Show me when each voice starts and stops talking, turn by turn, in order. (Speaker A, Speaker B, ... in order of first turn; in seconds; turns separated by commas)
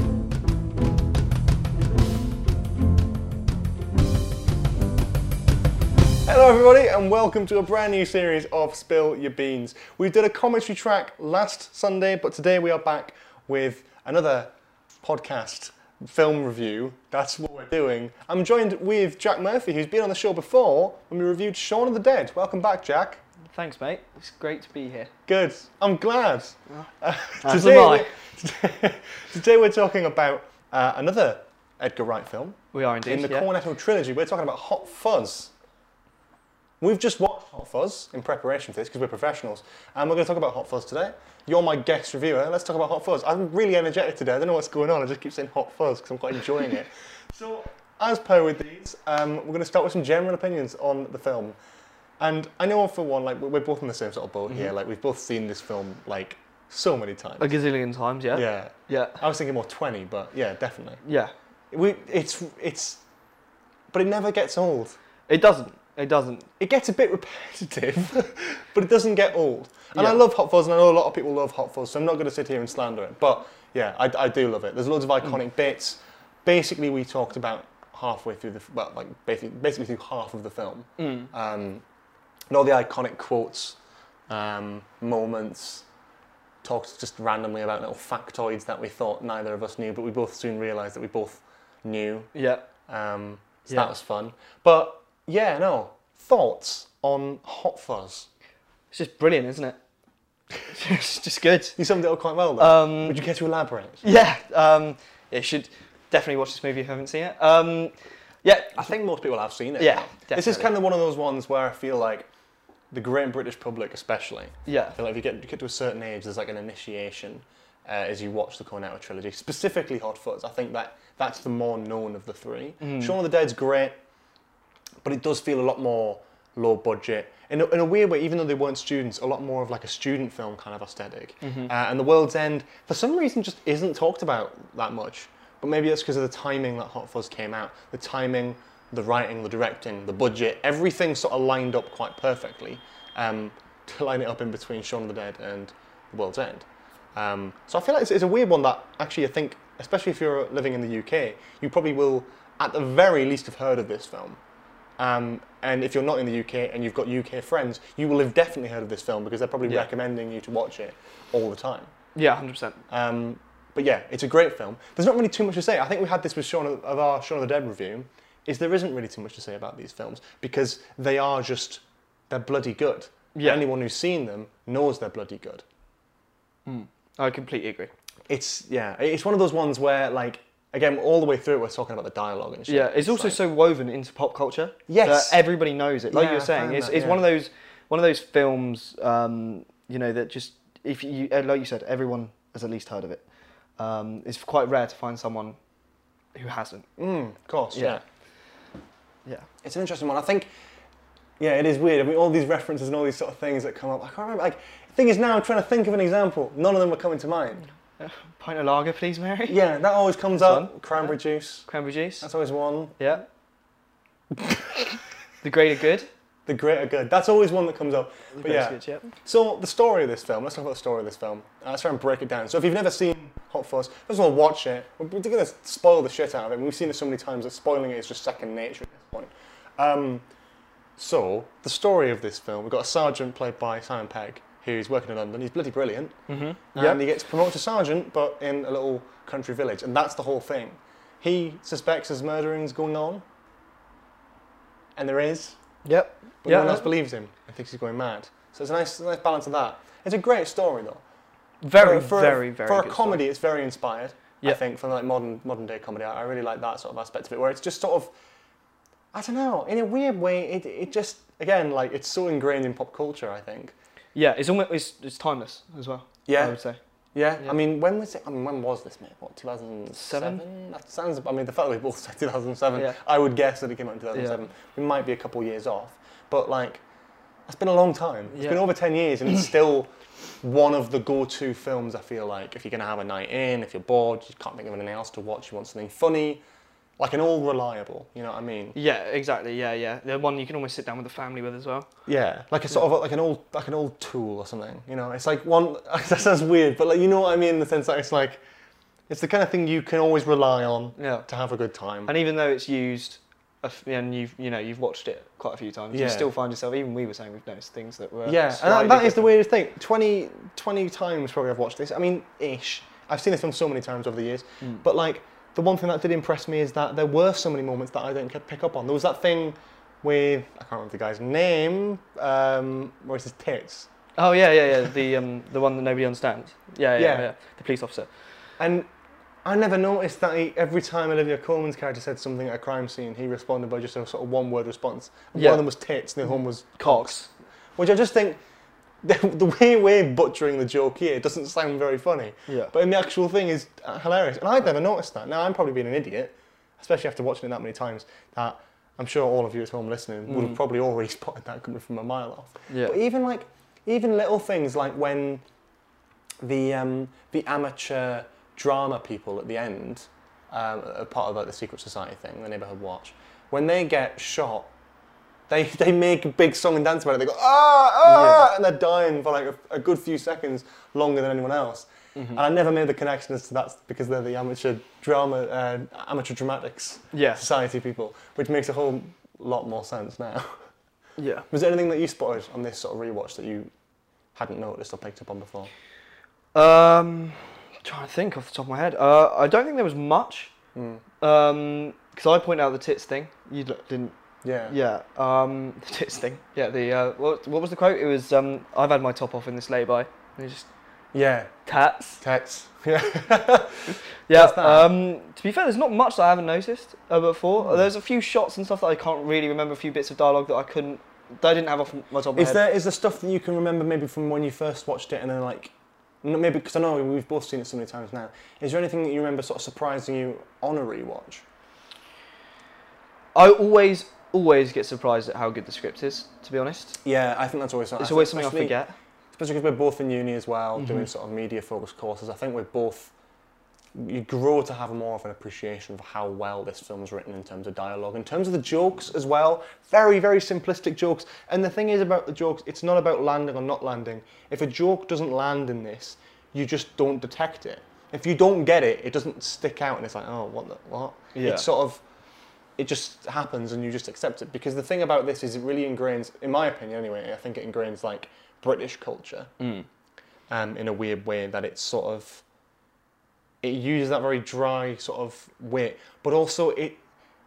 Speaker A: 6.2-23.2, Speaker B: 23.5-25.1, Speaker A: 25.3-35.5, Speaker B: 27.4-28.1, Speaker B: 32.7-33.5, Speaker A: 36.8-51.6, Speaker A: 52.2-57.5, Speaker B: 57.4-59.2, Speaker A: 58.3-61.0, Speaker B: 61.0-61.3, Speaker A: 61.7-63.0, Speaker A: 63.9-65.0, Speaker B: 65.3-66.5, Speaker A: 66.6-81.8, Speaker B: 69.9-70.2, Speaker B: 81.0-81.3, Speaker A: 82.5-83.8, Speaker A: 84.3-85.8, Speaker A: 86.6-92.3, Speaker B: 92.3-92.6, Speaker A: 92.9-98.3, Speaker B: 98.9-99.8, Speaker B: 100.6-101.8, Speaker A: 101.8-104.0, Speaker B: 102.6-103.2, Speaker B: 104.0-108.9, Speaker A: 108.7-112.3, Speaker B: 109.8-110.7, Speaker A: 112.9-124.0, Speaker B: 114.7-115.0, Speaker B: 122.8-123.2, Speaker A: 125.0-154.4, Speaker B: 131.4-131.7, Speaker A: 155.0-161.9, Speaker B: 162.1-162.8, Speaker A: 162.9-175.6, Speaker B: 173.3-173.7, Speaker B: 176.7-177.9, Speaker A: 178.3-183.4, Speaker B: 182.7-193.2, Speaker A: 184.9-185.4, Speaker A: 186.1-187.2, Speaker B: 193.8-195.6, Speaker B: 196.3-196.9, Speaker A: 197.0-198.0, Speaker B: 197.7-198.0, Speaker A: 199.6-200.5, Speaker A: 201.4-207.7, Speaker B: 208.0-209.6, Speaker A: 209.4-211.7, Speaker B: 210.3-211.1, Speaker B: 211.6-212.3, Speaker A: 212.2-213.0, Speaker B: 213.0-213.2, Speaker A: 214.3-215.0, Speaker B: 215.4-216.1, Speaker A: 216.4-230.2, Speaker B: 218.3-219.1, Speaker A: 231.0-243.2, Speaker B: 236.3-237.0, Speaker A: 244.9-245.6, Speaker B: 245.8-246.9, Speaker A: 246.4-251.0, Speaker B: 251.6-253.2, Speaker A: 251.7-258.1, Speaker A: 259.1-263.7, Speaker B: 264.1-266.8, Speaker A: 266.2-266.6, Speaker A: 267.1-276.8, Speaker B: 269.9-270.4, Speaker B: 274.1-274.4, Speaker A: 277.5-286.4, Speaker B: 278.3-278.6, Speaker A: 287.0-288.8, Speaker B: 288.7-291.9, Speaker A: 292.1-298.4, Speaker A: 299.1-302.1, Speaker B: 301.0-301.2, Speaker B: 302.1-309.3, Speaker A: 305.9-306.3, Speaker A: 308.2-323.9, Speaker B: 324.2-328.3, Speaker A: 327.0-327.3, Speaker A: 328.6-328.9, Speaker A: 329.4-338.4, Speaker B: 335.3-335.7, Speaker B: 336.8-337.3, Speaker A: 339.0-355.4, Speaker B: 342.5-342.7, Speaker B: 350.3-350.6, Speaker B: 352.7-352.9, Speaker A: 356.4-364.7, Speaker A: 365.5-380.7, Speaker B: 368.0-368.4, Speaker B: 372.1-372.4, Speaker B: 377.1-377.4, Speaker B: 381.2-381.5, Speaker A: 381.5-383.7, Speaker A: 384.3-385.7, Speaker B: 386.5-390.5, Speaker A: 390.7-391.0, Speaker B: 391.2-400.7, Speaker A: 394.4-394.7, Speaker A: 401.1-401.6, Speaker B: 401.6-402.2, Speaker A: 402.2-404.9, Speaker B: 404.2-412.6, Speaker A: 412.3-421.4, Speaker B: 423.3-427.0, Speaker A: 427.0-428.8, Speaker B: 428.0-428.9, Speaker A: 429.3-433.1, Speaker B: 430.8-431.1, Speaker A: 433.9-452.0, Speaker B: 451.3-451.7, Speaker A: 452.8-459.5, Speaker B: 459.6-459.9, Speaker A: 460.5-462.4, Speaker A: 463.6-467.0